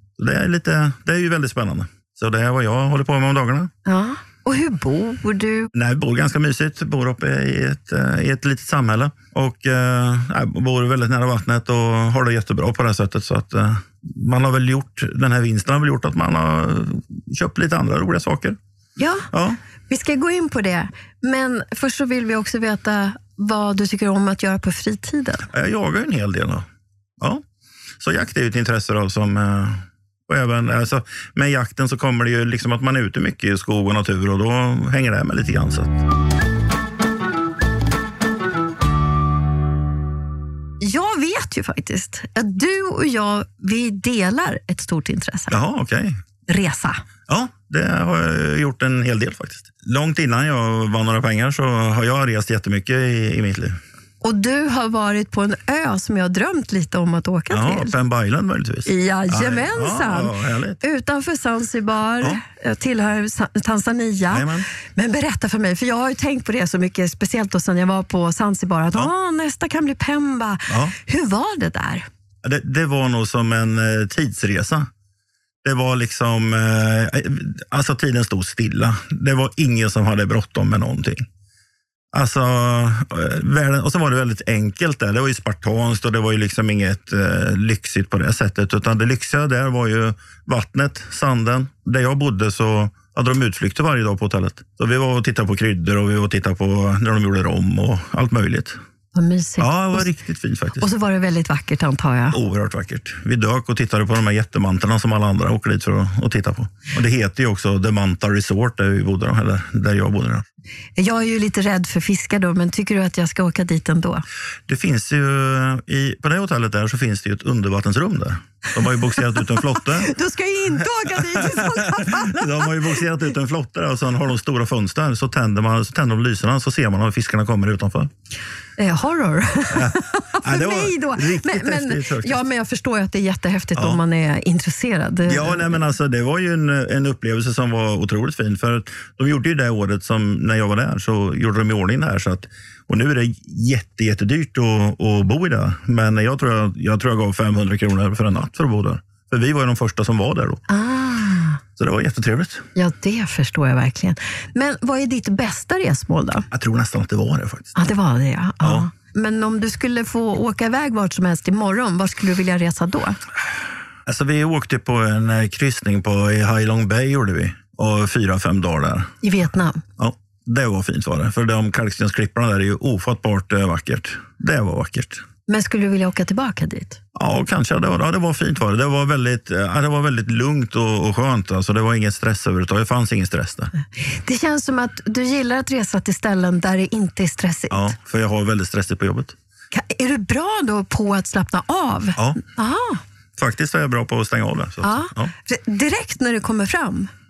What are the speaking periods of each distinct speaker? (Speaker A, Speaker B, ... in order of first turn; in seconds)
Speaker A: 0.2-3.7, 5.7-18.6, 19.3-19.6, 25.5-26.6, 28.0-36.0, 45.5-46.1, 47.3-53.7, 57.5-60.8, 64.3-64.7, 70.7-70.9, 72.4-74.9, 75.6-81.2, 82.1-98.8, 99.6-100.9, 102.3-110.4, 114.7-120.1, 121.3-128.1, 129.7-132.4, 133.8-134.0, 135.3-150.6, 151.8-152.6, 156.5-157.8, 158.6-158.9, 164.1-169.1, 170.0-175.2, 177.1-183.7, 187.7-189.3, 193.4-195.3
Speaker B: 3.9-5.7, 19.0-19.3, 19.9-25.5, 40.8-45.6, 46.5-47.0, 54.2-57.9, 58.9-72.0, 99.1-100.1, 100.8-102.4, 111.0-114.2, 119.9-122.6, 128.8-135.8, 150.7-151.6, 152.7-156.5, 157.8-163.2, 169.2-169.8, 175.5-177.0, 184.0-187.9, 189.7-193.0, 194.8-197.1